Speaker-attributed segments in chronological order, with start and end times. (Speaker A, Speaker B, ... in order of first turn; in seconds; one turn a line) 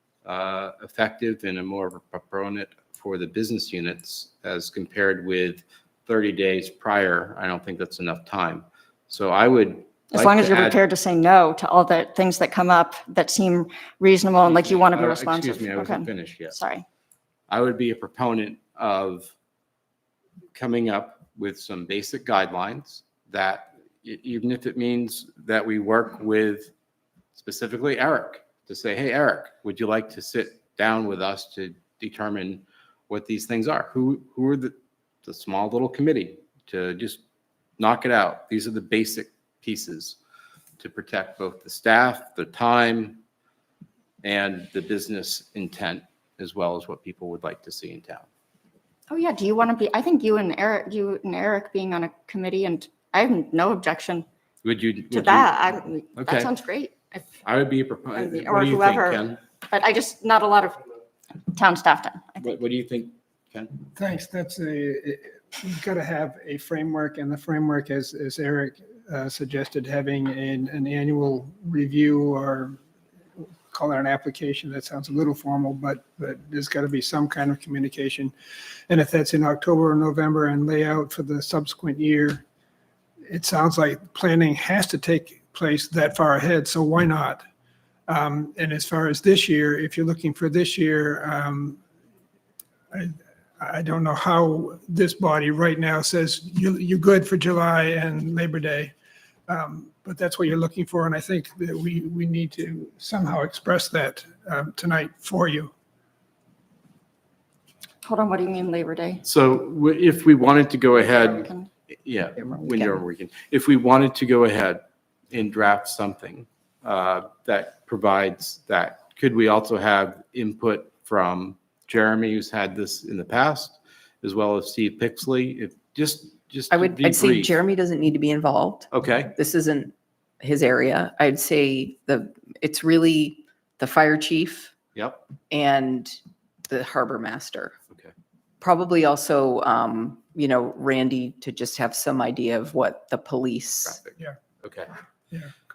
Speaker A: 0.2-10.8
Speaker B: 10.1-16.8
Speaker A: 14.5-16.6
Speaker A: 17.5-19.3
Speaker A: 20.5-26.7
Speaker A: 27.3-37.2
Speaker A: 37.8-40.2
Speaker A: 40.8-43.2
Speaker A: 44.2-48.3
Speaker B: 49.1-54.2
Speaker A: 54.6-55.5
Speaker B: 55.1-57.2
Speaker A: 56.1-56.5
Speaker A: 57.4-59.4
Speaker B: 58.1-60.8
Speaker B: 61.5-62.4
Speaker A: 62.4-63.7
Speaker C: 64.0-72.8
Speaker C: 73.4-78.3
Speaker C: 78.9-82.4
Speaker C: 83.3-87.4
Speaker C: 88.1-91.8
Speaker C: 92.9-98.9
Speaker C: 99.5-105.7
Speaker B: 108.0-109.2
Speaker A: 109.2-111.5
Speaker B: 111.0-111.7
Speaker A: 112.0-127.5
Speaker D: 112.4-113.0
Speaker D: 126.7-134.7
Speaker A: 128.9-129.3
Speaker A: 134.9-135.2
Speaker D: 135.5-137.8
Speaker D: 138.6-144.0
Speaker A: 143.8-144.9